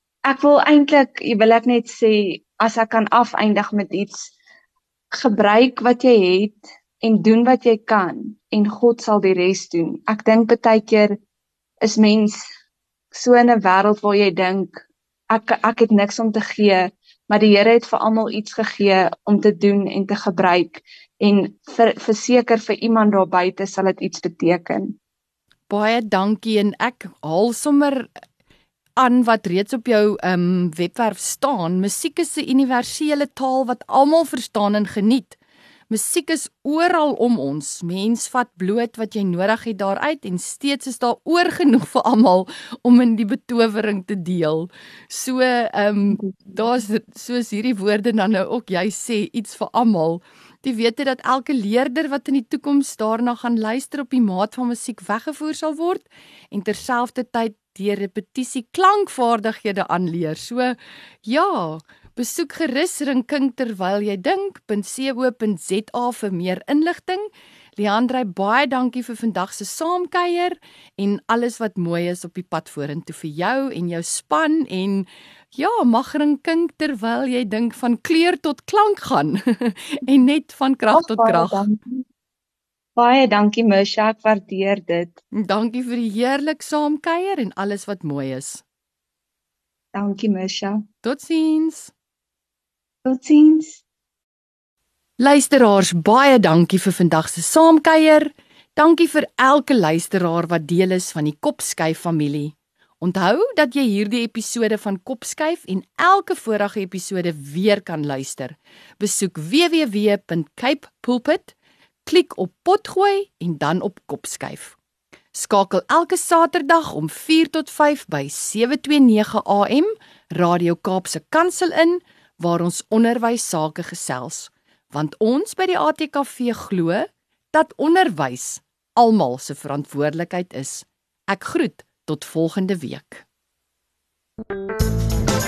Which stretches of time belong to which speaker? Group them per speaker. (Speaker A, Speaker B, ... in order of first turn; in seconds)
Speaker A: 0.2-4.3, 5.1-11.2, 11.8-12.4, 13.1-25.0, 80.9-82.0, 83.0-85.1, 89.9-90.8, 93.0-93.8
Speaker B: 25.7-28.1, 29.0-35.4, 35.9-81.7, 85.3-88.6, 91.0-91.9, 95.2-114.8, 115.3-133.2